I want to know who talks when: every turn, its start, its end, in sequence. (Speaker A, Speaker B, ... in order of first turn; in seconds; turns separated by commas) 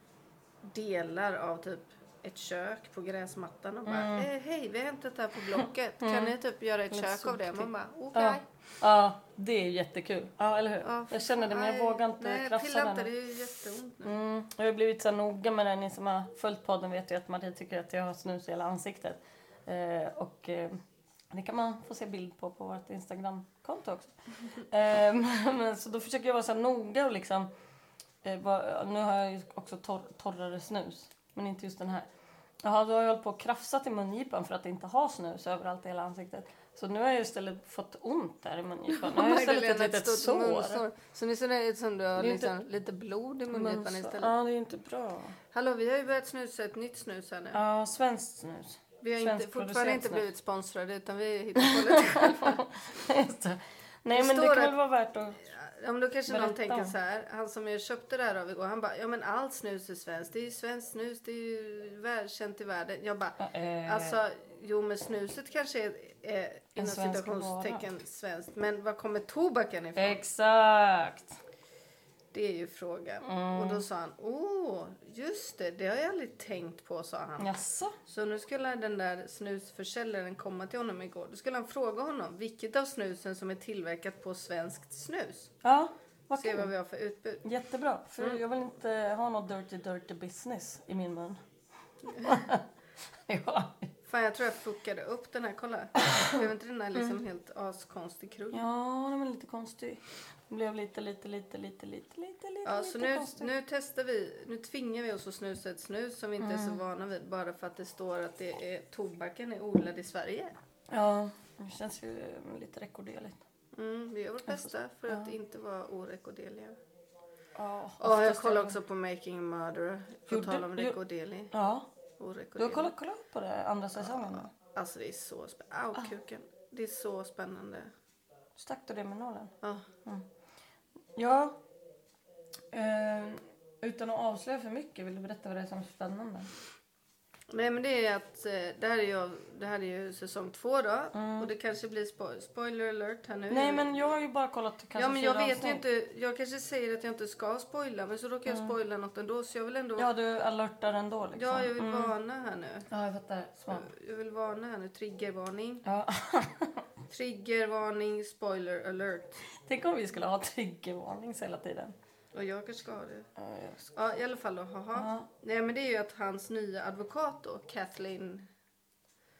Speaker A: 0.6-8.4, Speaker B: 3.9-4.3, Speaker B: 5.5-6.3, Speaker B: 6.9-13.1, Speaker A: 10.8-14.1, Speaker B: 14.0-20.8, Speaker B: 21.3-27.5, Speaker B: 28.2-32.1, Speaker B: 32.6-40.8, Speaker A: 38.9-44.3, Speaker B: 42.2-42.5, Speaker B: 43.5-45.4, Speaker A: 45.5-47.6, Speaker B: 47.5-50.2, Speaker A: 49.0-52.6, Speaker B: 51.6-55.4, Speaker A: 54.1-54.7, Speaker A: 55.4-70.2, Speaker B: 56.3-56.9, Speaker B: 63.4-64.2, Speaker B: 66.8-67.8, Speaker B: 70.0-71.3, Speaker A: 72.3-77.5, Speaker B: 73.2-73.8, Speaker B: 77.4-77.9, Speaker A: 78.0-85.5, Speaker B: 85.6-86.7, Speaker A: 86.4-87.4, Speaker B: 87.4-91.4, Speaker B: 92.0-92.6, Speaker B: 93.3-93.9, Speaker A: 94.1-98.7, Speaker B: 98.5-103.5, Speaker A: 102.6-110.5, Speaker B: 106.4-106.8, Speaker B: 110.9-113.4, Speaker A: 113.7-116.8, Speaker B: 114.5-115.3, Speaker B: 117.5-118.8, Speaker A: 118.0-121.5, Speaker B: 120.3-121.0, Speaker B: 121.5-121.9, Speaker A: 122.2-122.9, Speaker B: 122.6-124.5, Speaker A: 124.0-127.9, Speaker B: 128.6-129.5, Speaker B: 131.2-131.6, Speaker B: 132.7-136.5, Speaker A: 137.5-143.9, Speaker B: 141.1-141.5, Speaker B: 143.5-145.8, Speaker A: 144.9-150.1, Speaker B: 148.5-148.7, Speaker B: 150.0-152.1, Speaker A: 151.3-152.8, Speaker B: 152.9-153.9, Speaker A: 153.7-155.8, Speaker B: 155.8-156.8, Speaker A: 157.1-159.4, Speaker B: 159.4-161.9, Speaker A: 162.3-163.3, Speaker B: 163.4-163.9, Speaker A: 163.9-168.5, Speaker B: 164.9-165.2